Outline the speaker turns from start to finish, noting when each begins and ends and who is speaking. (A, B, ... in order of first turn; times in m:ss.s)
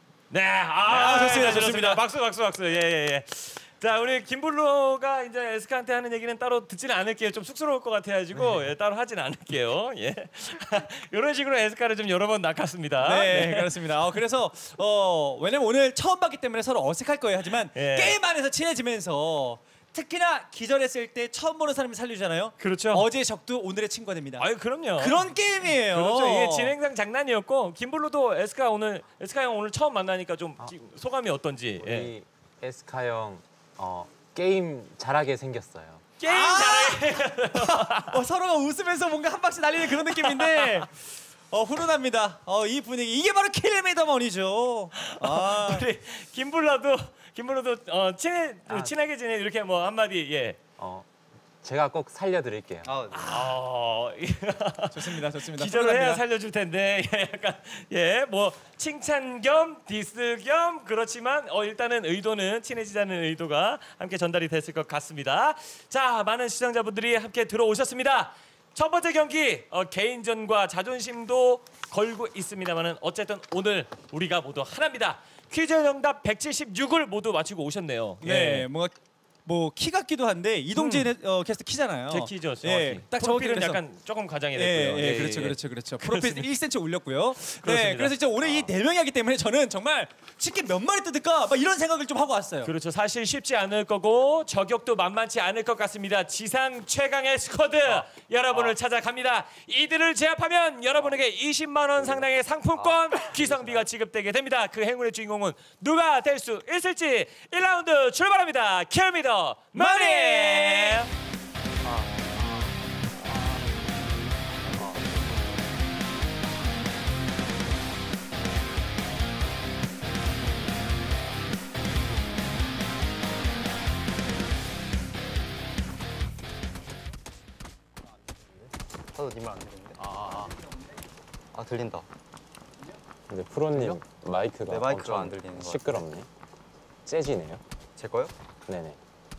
0:00.3-0:13.7 A
0:00.8-0:02.0 B
0:08.3-0:08.6 C
0:13.0-0:24.4 B
0:17.7-0:18.2 A
0:22.6-0:23.1 A
0:24.4-0:32.1 A
0:25.0-0:26.7 B
0:31.8-0:36.0 D
0:36.2-0:38.2 A
0:36.2-0:40.9 B
0:40.2-0:40.8 A
0:41.5-0:45.8 B
0:44.9-0:50.6 A
0:50.8-0:51.1 D
0:51.6-0:52.9 D
0:52.8-0:53.4 C
0:53.1-0:53.5 B
0:53.3-1:18.7 A
0:54.9-0:56.2 B
1:18.2-1:18.9 B
1:19.4-1:23.8 B
1:20.7-1:21.1 A
1:22.1-1:26.5 A
1:24.5-1:32.7 B
1:27.4-1:28.7 A
1:32.6-1:51.1 A
1:42.0-1:42.2 C
1:42.8-1:43.9 C
1:49.7-1:51.0 B
2:09.1-2:10.0 C
2:10.1-2:10.5 D
2:11.5-2:12.0 C
2:13.3-2:16.3 D
2:14.7-2:16.0 C
2:17.0-2:17.6 D
2:18.0-2:18.3 C
2:18.7-2:19.0 D